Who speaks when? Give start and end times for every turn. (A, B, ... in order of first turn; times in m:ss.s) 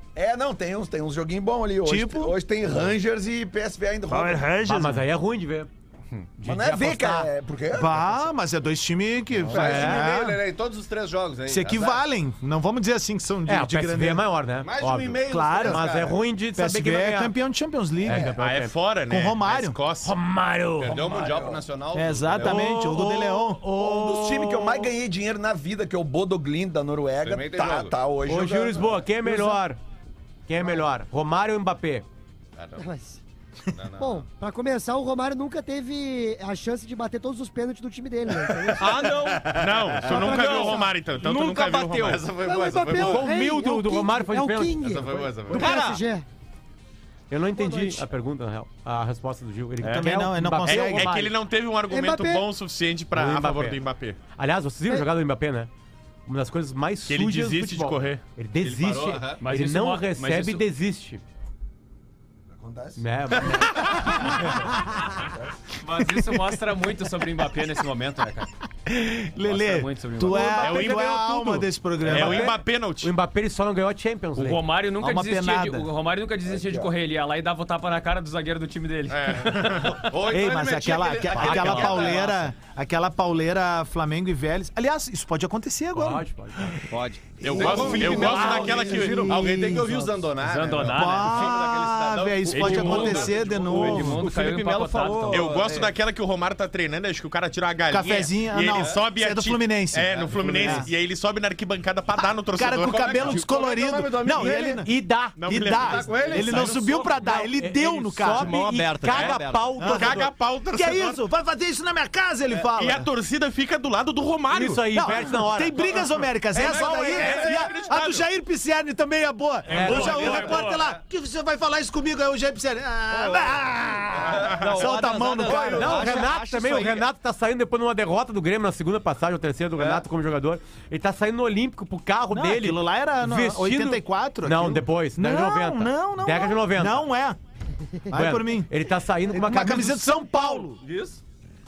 0:00.2-0:04.5 A
0:01.8-0:02.3 B
0:04.1-0:05.1 B
0:04.6-0:05.7 C
0:06.4-0:07.3 C
0:06.4-0:08.4 A
0:07.7-0:10.5 B
0:09.4-0:10.1 A
0:09.4-0:12.0 D
0:09.6-0:10.0 C
0:11.5-0:14.3 B
0:13.5-0:17.4 C
0:14.6-0:16.2 D
0:15.2-0:15.9 B
0:16.6-0:18.4 B
0:18.0-0:18.7 C
0:18.3-0:20.2 E
0:19.1-0:19.8 B
0:20.0-0:21.2 C
0:20.8-0:22.6 D
0:21.0-0:21.6 A
0:21.9-0:23.7 B
0:22.4-0:24.9 C
0:23.7-0:29.0 A
0:27.2-0:28.0 D
0:28.3-0:29.8 C
0:29.2-0:29.6 B
0:30.5-0:32.1 C
0:32.6-0:32.9 D
0:32.8-0:33.2 F
0:33.7-0:34.3 D
0:34.0-0:39.1 F
0:38.8-0:42.3 G
0:38.8-0:39.4 D
0:39.5-0:43.0 E
0:40.1-0:41.0 F
0:42.1-0:43.2 D
0:42.3-0:46.2 F
0:43.0-0:44.8 C
0:44.8-0:45.7 E
0:45.5-0:45.8 C
0:45.6-0:46.0 G
0:47.3-0:51.3 C
0:47.6-0:48.0 F
0:49.8-0:51.2 B
0:50.6-0:54.2 E
0:51.9-0:52.5 F
0:53.1-0:53.8 C
0:54.4-0:55.7 C
0:56.3-1:01.2 C
0:57.1-0:58.2 E
0:58.6-0:59.4 D
0:59.4-1:00.6 H
1:02.5-1:03.6 A
1:03.0-1:04.5 C
1:05.8-1:08.5 H
1:06.1-1:06.4 B
1:08.9-1:12.6 B
1:09.4-1:11.0 H
1:10.6-1:13.1 E
1:13.0-1:14.6 C
1:14.4-1:20.1 H
1:15.0-1:15.9 B
1:16.5-1:16.9 A
1:19.1-1:20.1 E
1:20.0-1:22.3 D
1:20.2-1:26.8 B
1:21.4-1:22.4 H
1:21.5-1:21.7 E
1:25.9-1:26.8 C
1:26.9-1:29.1 G
1:27.4-1:29.4 E
1:27.5-1:34.1 D
1:27.6-1:34.3 B
1:28.2-1:28.7 C
1:30.4-1:31.7 H
1:32.5-1:35.6 H
1:33.8-1:35.9 G
1:35.3-1:43.4 E
1:37.9-1:40.9 B
1:40.1-1:40.6 D
1:40.3-1:40.8 G
1:42.2-1:48.6 B
1:43.0-1:44.8 D
1:44.3-1:50.3 C
1:45.4-1:47.2 E
1:45.8-1:46.7 D
1:48.3-1:49.8 G
1:49.0-1:51.2 E
1:49.8-1:53.1 B
1:52.5-1:55.1 E
1:54.5-1:56.1 C
1:54.9-2:06.3 B
1:56.5-1:58.3 E
1:59.7-2:00.8 H
1:59.7-2:00.6 E
1:59.8-2:00.5 C
2:03.1-2:03.6 G
2:04.3-2:04.8 E
2:04.3-2:07.1 G
2:05.5-2:17.1 C
2:12.3-2:17.4 B
2:18.1-2:18.7 B
2:18.1-2:20.7 C
2:19.3-2:20.8 B
2:20.8-2:21.2 D